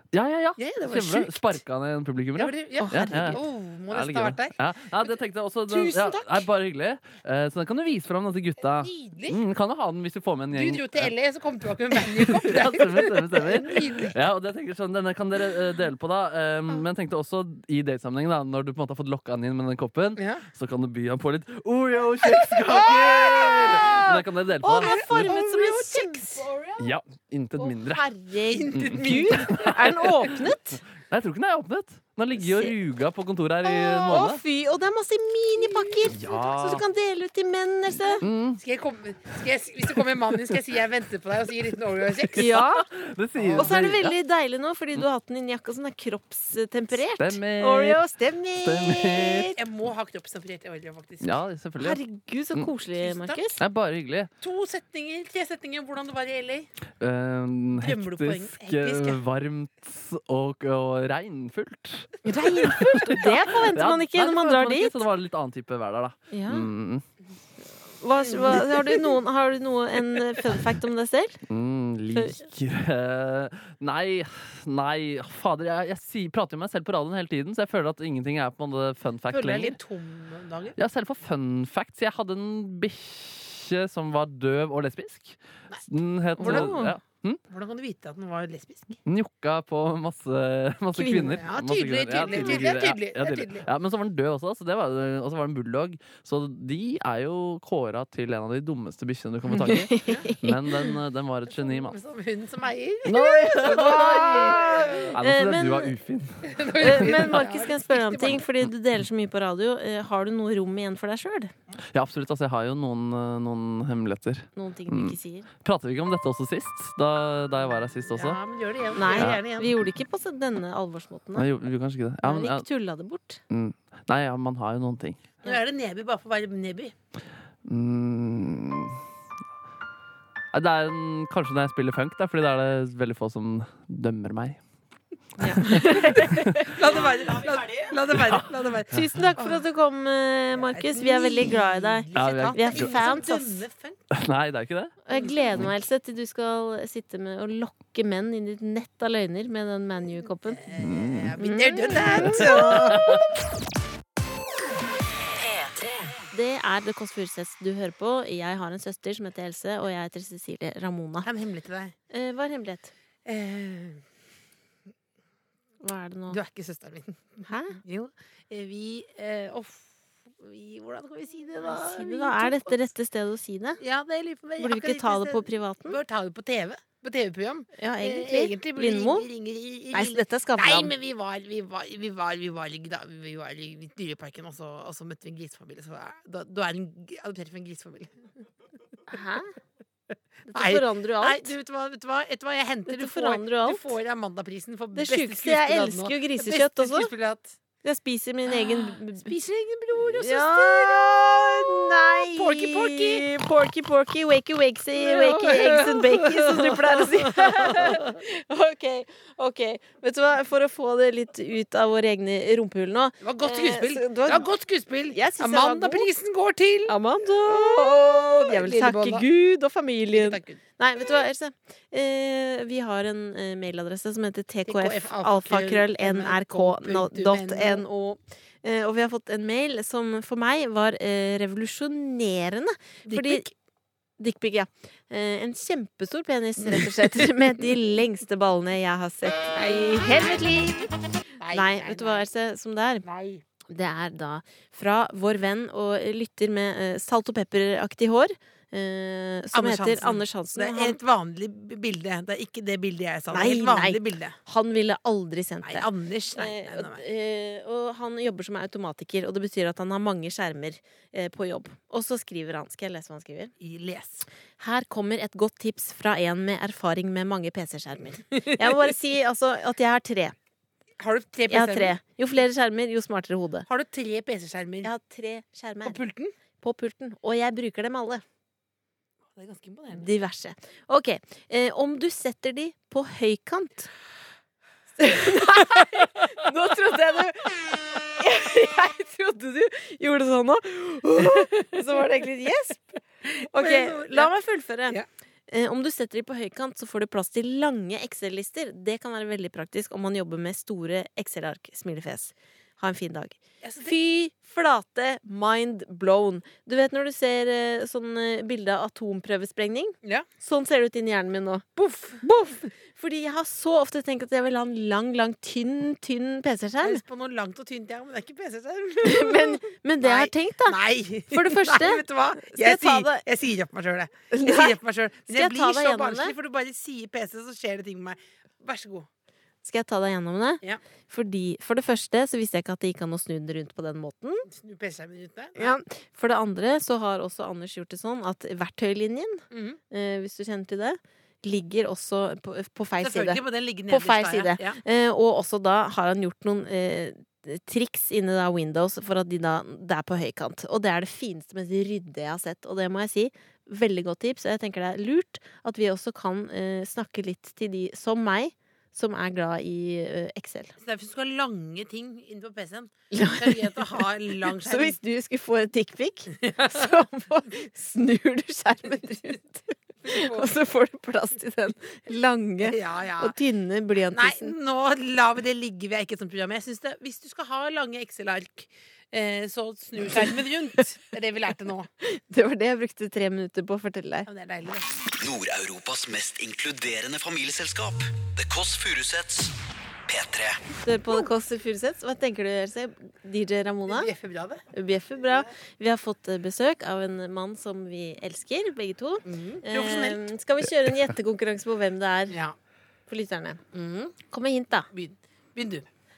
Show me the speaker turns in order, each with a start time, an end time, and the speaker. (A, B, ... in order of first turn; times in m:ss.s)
0:00.1-0:11.1 A
0:00.6-0:01.6 B
0:02.4-0:04.5 B
0:02.8-0:03.4 C
0:05.7-0:06.4 B
0:08.8-0:09.4 B
0:10.5-0:14.1 B
0:11.9-0:25.3 A
0:20.2-0:20.4 B
0:22.3-0:26.5 B
0:24.6-0:26.8 C
0:26.8-0:28.0 A
0:27.6-0:30.8 C
0:28.5-0:30.3 B
0:28.7-0:30.4 A
0:31.0-0:34.4 A
0:32.4-0:32.7 C
0:33.6-0:38.2 C
0:35.6-0:35.9 B
0:36.1-0:36.8 A
0:38.2-0:38.6 A
0:38.6-0:42.5 B
0:42.2-0:44.1 A
0:42.4-0:42.9 C
0:43.4-0:43.8 B
0:43.6-0:49.6 C
0:47.2-0:48.0 A
0:48.6-0:49.5 A
0:49.6-0:51.4 B
0:51.2-0:52.0 A
0:51.8-0:53.6 C
0:53.0-0:53.4 B
0:53.6-0:54.3 A
0:54.4-0:56.7 B
0:57.0-1:07.0 A
0:57.8-0:59.2 B
1:02.2-1:05.0 C
1:06.3-1:06.7 C
1:08.0-1:11.4 C
1:08.2-1:09.2 B
1:11.5-1:19.8 A
1:12.1-1:12.4 C
1:19.3-1:20.8 B
1:20.8-1:27.4 A
1:26.4-1:26.9 C
1:26.4-1:26.8 B
1:27.5-1:29.0 B
1:29.0-1:42.0 A
1:31.0-1:31.4 C
1:31.4-1:33.6 B
1:32.3-1:32.6 C
1:39.5-1:40.9 C
1:40.0-1:40.3 B
1:41.5-1:45.1 B
1:43.0-1:47.4 A
1:43.4-1:45.9 C
1:46.5-1:48.4 B
1:46.8-1:51.5 C
1:51.9-1:58.4 A
1:54.6-1:55.5 C
1:58.1-1:59.7 B
1:58.9-2:01.5 C
1:59.1-1:59.4 A
2:01.4-2:02.6 A
2:02.2-2:03.4 C
2:03.5-2:05.4 A
2:05.4-2:06.9 B
2:07.6-2:09.0 A
2:10.5-2:14.6 A
2:15.4-2:16.8 C
2:15.6-2:16.7 A
2:16.6-2:19.6 B
2:18.1-2:18.5 A
2:18.9-2:23.6 C
2:20.5-2:24.0 B
2:22.1-2:23.0 A
2:24.1-2:24.9 A
2:25.1-2:30.6 C
2:25.1-2:25.6 B
2:30.5-2:33.2 B
2:30.8-2:31.3 A
2:31.4-2:33.1 C
2:32.2-2:33.2 A
2:36.3-2:41.3 C
2:41.2-2:41.9 B
2:42.1-2:42.9 C
2:43.2-2:44.0 B
2:45.8-2:46.4 C
2:46.3-2:52.8 B
2:47.5-2:47.8 C
2:51.6-2:53.8 C
2:53.8-3:08.1 B
2:54.6-2:56.0 C
2:57.8-2:59.3 C
2:59.9-3:00.9 C
3:09.1-3:09.5 C
3:10.5-3:11.5 C
3:10.5-3:17.6 B
3:12.9-3:13.9 C
3:14.9-3:17.1 C
3:17.8-3:19.3 C
3:18.5-3:21.6 B
3:20.2-3:34.5 C
3:22.4-3:23.3 B
3:25.0-3:28.1 B
3:33.2-3:36.9 B
3:35.1-3:36.1 C
3:36.9-3:53.4 C
3:37.5-3:39.2 B
3:40.1-3:40.6 B
3:44.7-3:47.8 B
3:53.1-3:53.5 B
3:54.2-4:00.9 C
3:56.6-3:56.9 B
3:59.6-4:00.4 B
4:01.4-4:02.3 B
4:01.5-4:03.0 C
4:03.0-4:03.4 B
4:03.7-4:11.0 C
4:09.5-4:14.4 B
4:13.3-4:23.5 C
4:15.6-4:17.0 B
4:23.6-4:24.2 B
4:24.6-4:30.4 C
4:28.3-4:28.6 B
4:31.0-4:31.9 B
4:31.5-4:33.7 C
4:33.7-4:34.9 B
4:34.8-4:36.0 C
4:35.8-4:36.3 B
4:36.6-4:38.2 C
4:39.4-4:40.1 B
4:39.9-4:43.9 C
4:45.0-5:11.6 C
4:53.6-4:54.3 B
5:03.6-5:03.9 B
5:11.8-5:12.2 B
5:12.2-5:17.0 C
5:16.8-5:29.1 B
5:19.0-5:20.8 C
5:21.3-5:23.2 C
5:24.3-5:26.3 C
5:29.6-5:34.4 C
5:34.5-5:35.8 B
5:35.6-6:00.8 C
5:39.5-5:39.8 B
5:43.0-5:44.8 B
6:00.8-6:05.0 B
6:03.1-6:14.6 C
6:06.4-6:06.9 B
6:10.0-6:10.5 B
6:12.6-6:13.4 B
6:14.1-6:21.9 B
6:22.0-6:24.3 C
6:24.3-6:24.9 B
6:25.1-6:29.5 D
6:30.1-6:30.6 D
6:30.8-6:34.1 C
6:33.9-6:34.6 B
6:34.7-6:42.4 C
6:39.3-6:40.2 B
6:42.3-6:42.6 B
6:43.1-6:43.6 C
6:43.7-6:44.1 B
6:44.3-6:44.9 C
6:44.9-6:45.9 B